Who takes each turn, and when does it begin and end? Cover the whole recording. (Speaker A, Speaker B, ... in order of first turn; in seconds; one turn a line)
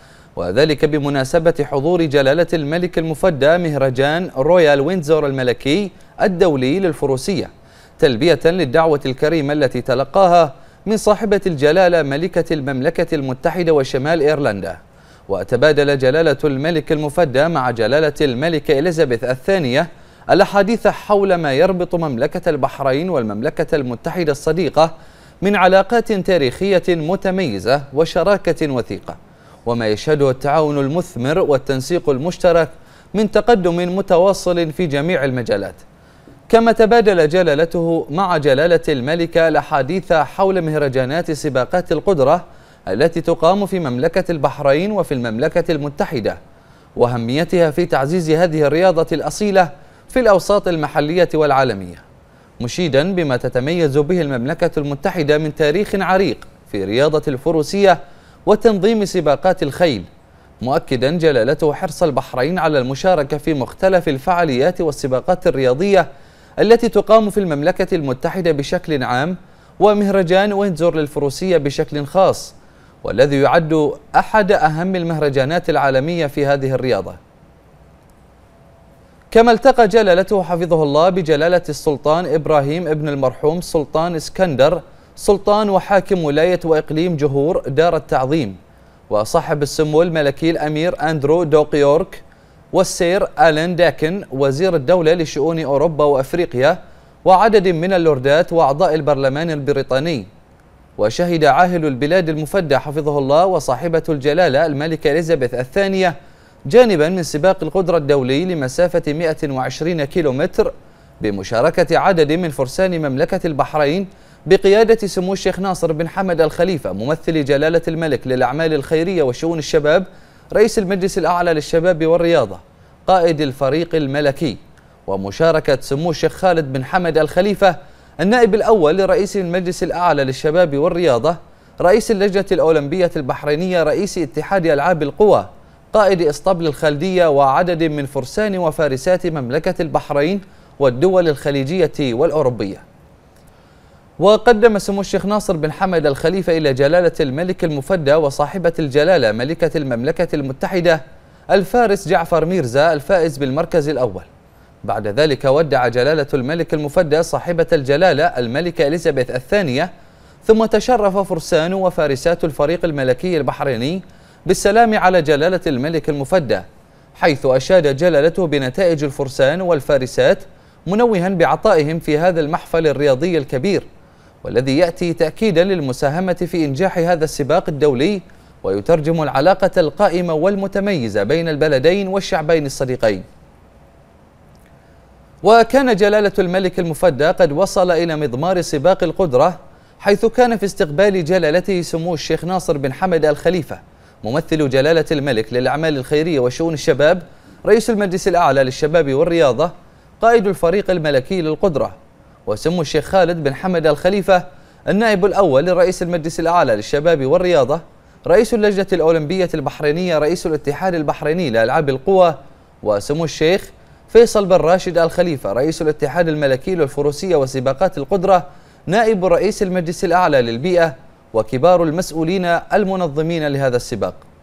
Speaker A: 0.4-35.8
Speaker A: 36.5-46.4
Speaker A: 47.0-52.0
Speaker A: 52.6-60.1
Speaker A: 60.6-66.1
Speaker A: 66.6-77.2
Speaker A: 79.3-88.6
Speaker A: 89.1-92.2
Speaker A: 92.7-100.3
Speaker A: 101.0-106.2
Speaker A: 106.7-142.8
Speaker A: 144.2-154.3
Speaker A: 154.8-159.9
Speaker A: 160.4-173.8
Speaker A: 174.4-183.2
Speaker A: 185.4-201.9
Speaker A: 202.5-224.2